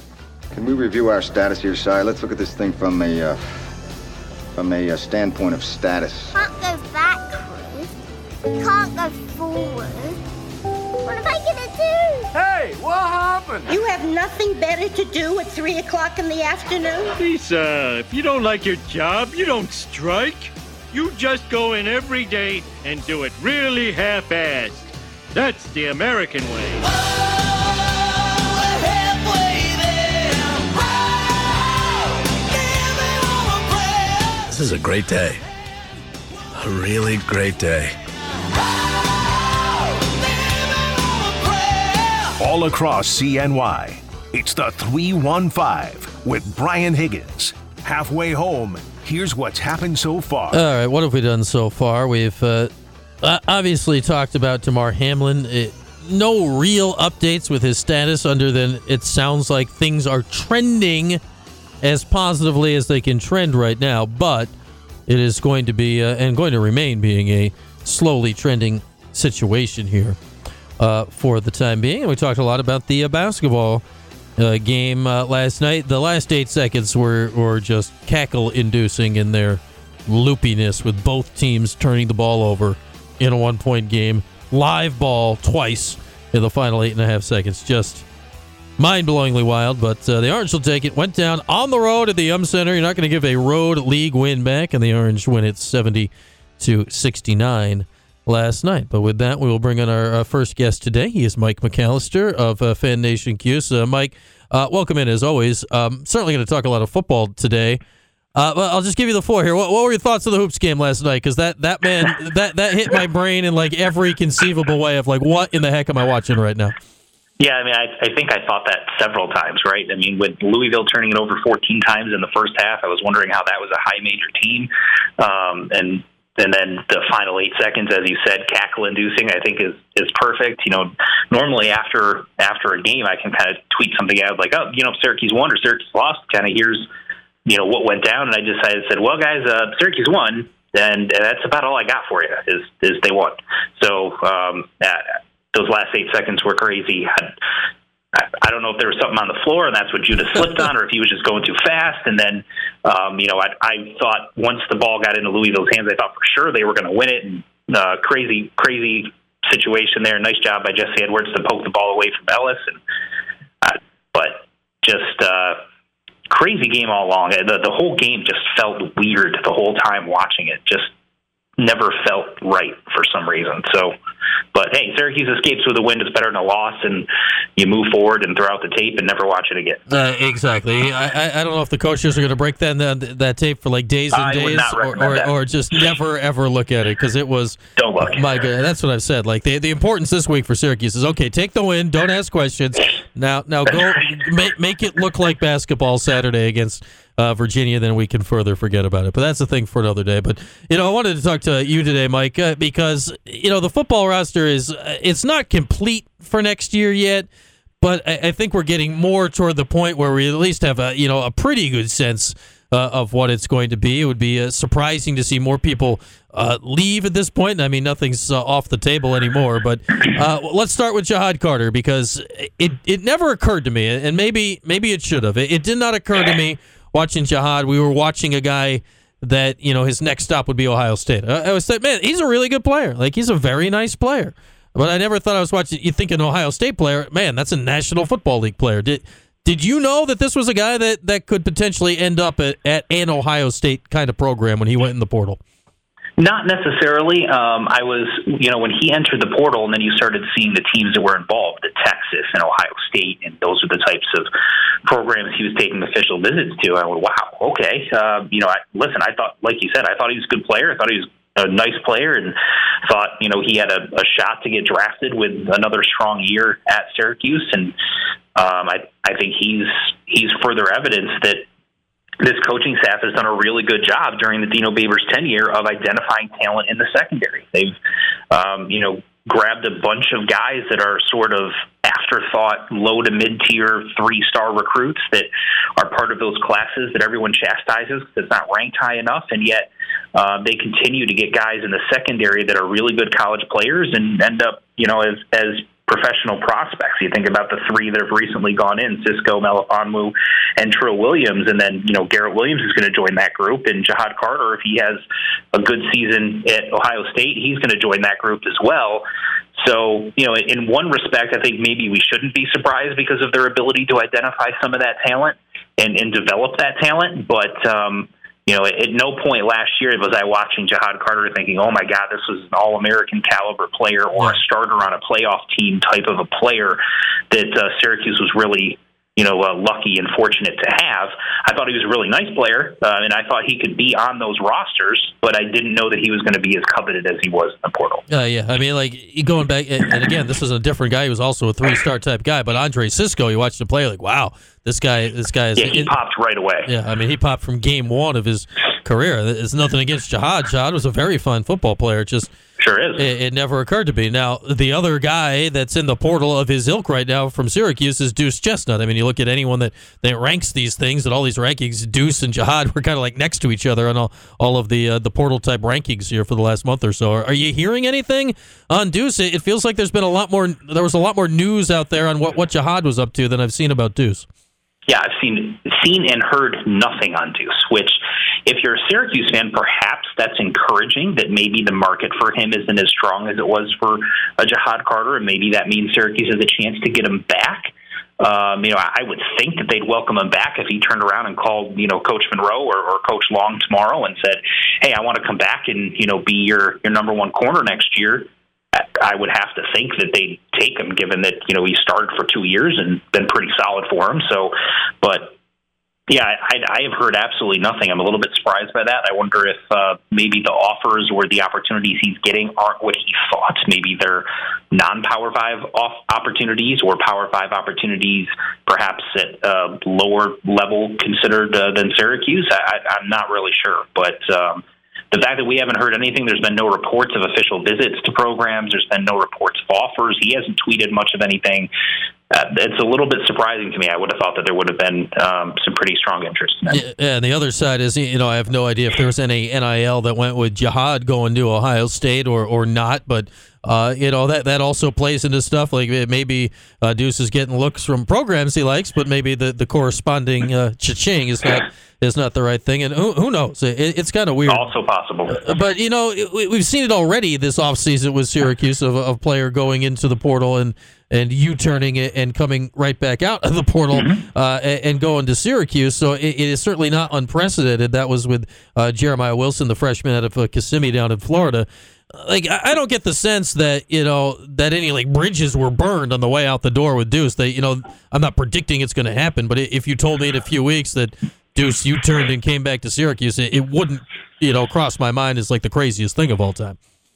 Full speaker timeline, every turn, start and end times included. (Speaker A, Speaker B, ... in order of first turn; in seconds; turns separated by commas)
Speaker A: 0.5-3.5, Speaker A: 4.5-6.4, Speaker B: 6.3-7.9, Speaker B: 8.6-10.2, Speaker B: 11.0-12.3, Speaker C: 12.3-13.7, Speaker D: 13.7-17.2, Speaker C: 17.1-26.9, Speaker C: 29.1-30.3, Speaker C: 33.3-33.6, Speaker E: 34.5-35.4, Speaker E: 36.5-38.0, Speaker F: 42.4-50.6, Speaker G: 50.5-52.7, Speaker G: 53.2-61.2, Speaker G: 61.8-64.5, Speaker G: 65.1-70.2, Speaker G: 70.8-73.8, Speaker G: 74.4-88.1, Speaker G: 88.8-107.8, Speaker G: 108.3-116.7, Speaker H: 117.4-136.9, Speaker H: 137.5-147.3, Speaker H: 148.2-162.8, Speaker H: 163.6-165.6, Speaker H: 166.3-170.9, Speaker H: 171.6-173.9, Speaker H: 174.5-179.8, Speaker G: 179.9-207.3, Speaker H: 184.1-185.3, Speaker H: 187.8-188.3, Speaker G: 207.8-245.4, Speaker H: 246.2-254.3, Speaker H: 254.8-267.8, Speaker H: 268.4-271.4, Speaker H: 272.2-277.8, Speaker H: 278.3-305.0, Speaker H: 305.5-309.0, Speaker H: 309.6-326.8, Speaker H: 327.3-338.0, Speaker G: 338.1-345.9, Speaker H: 345.6-346.7, Speaker G: 346.7-352.3, Speaker H: 352.6-353.1, Speaker G: 353.0-374.3, Speaker H: 374.9-405.4, Speaker H: 406.1-431.7, Speaker H: 432.3-436.8, Speaker G: 436.7-454.6, Speaker H: 454.5-455.4, Speaker G: 455.3-486.8, Speaker H: 463.9-464.2